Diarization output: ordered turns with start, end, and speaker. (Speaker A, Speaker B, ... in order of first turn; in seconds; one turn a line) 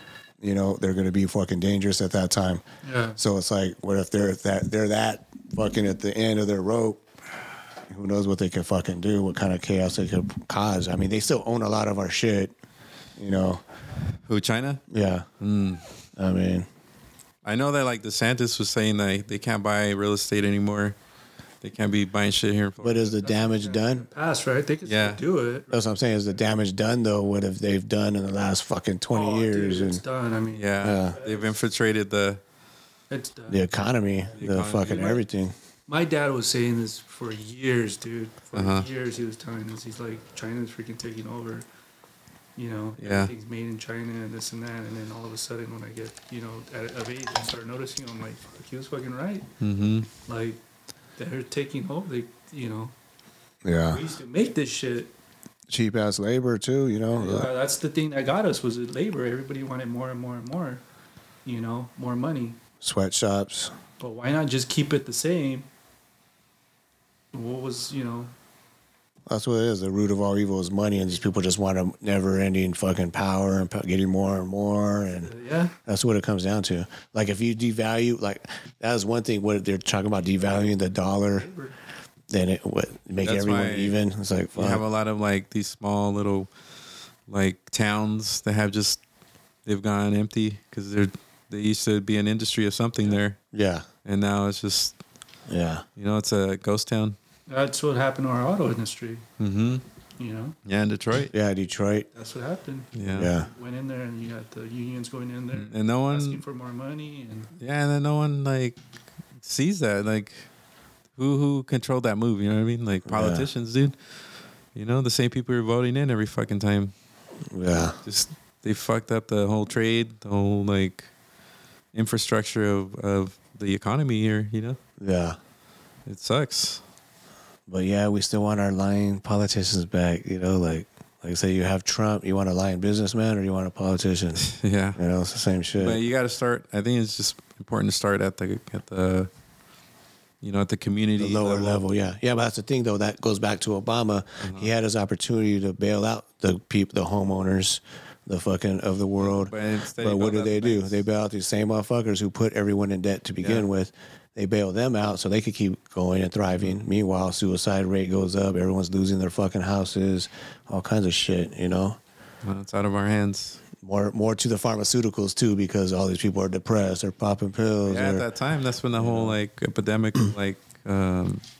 Speaker A: 0.4-2.6
Speaker B: 2.8-3.2
Speaker A: 3.2-7.0
Speaker A: 7.9-12.5
Speaker A: 13.2-13.6
Speaker C: 14.2-14.8
Speaker A: 14.9-15.3
Speaker C: 15.4-15.8
Speaker A: 16.2-16.7
Speaker C: 17.4-20.9
Speaker C: 21.6-23.1
Speaker A: 22.8-24.1
Speaker B: 23.1-26.6
Speaker C: 24.8-25.2
Speaker A: 25.7-30.0
Speaker B: 29.1-31.5
Speaker C: 30.5-32.4
Speaker A: 30.8-31.2
Speaker B: 33.1-33.7
Speaker A: 33.5-35.5
Speaker C: 34.4-35.1
Speaker B: 34.8-35.2
Speaker B: 35.9-41.6
Speaker C: 38.5-38.9
Speaker B: 42.5-49.5
Speaker C: 43.0-43.3
Speaker C: 49.6-50.1
Speaker B: 50.2-50.6
Speaker B: 51.2-52.9
Speaker A: 53.6-54.0
Speaker B: 53.9-55.1
Speaker A: 55.7-57.5
Speaker B: 57.1-60.8
Speaker B: 61.4-62.6
Speaker A: 62.8-63.7
Speaker B: 64.0-65.7
Speaker B: 67.3-68.3
Speaker A: 69.3-75.3
Speaker B: 75.2-75.7
Speaker A: 75.8-81.5
Speaker B: 80.3-81.7
Speaker A: 82.3-84.8
Speaker C: 83.2-83.9
Speaker C: 84.5-86.5
Speaker C: 87.3-89.0
Speaker C: 89.7-93.4
Speaker A: 93.5-93.9
Speaker C: 94.0-95.0
Speaker A: 95.5-95.8
Speaker C: 96.0-97.2
Speaker B: 97.5-99.2
Speaker C: 99.4-99.8
Speaker B: 100.2-100.5
Speaker C: 100.6-101.3
Speaker A: 101.3-102.1
Speaker B: 102.1-107.5
Speaker C: 102.9-103.3
Speaker A: 103.1-103.5
Speaker C: 105.5-106.4
Speaker C: 107.6-108.8
Speaker C: 109.4-110.5
Speaker C: 111.1-114.0
Speaker A: 113.0-113.5
Speaker C: 114.7-116.9
Speaker A: 117.5-118.0
Speaker C: 118.0-121.1
Speaker C: 121.9-124.8
Speaker A: 125.0-125.4
Speaker C: 126.0-126.8
Speaker A: 127.7-136.0
Speaker C: 134.4-135.0
Speaker C: 135.8-139.3
Speaker C: 140.4-141.8
Speaker A: 141.2-162.0
Speaker C: 144.4-144.7
Speaker C: 149.2-151.0
Speaker C: 153.4-153.7
Speaker C: 162.4-163.6
Speaker A: 163.8-168.2
Speaker C: 167.9-171.4
Speaker A: 168.9-169.4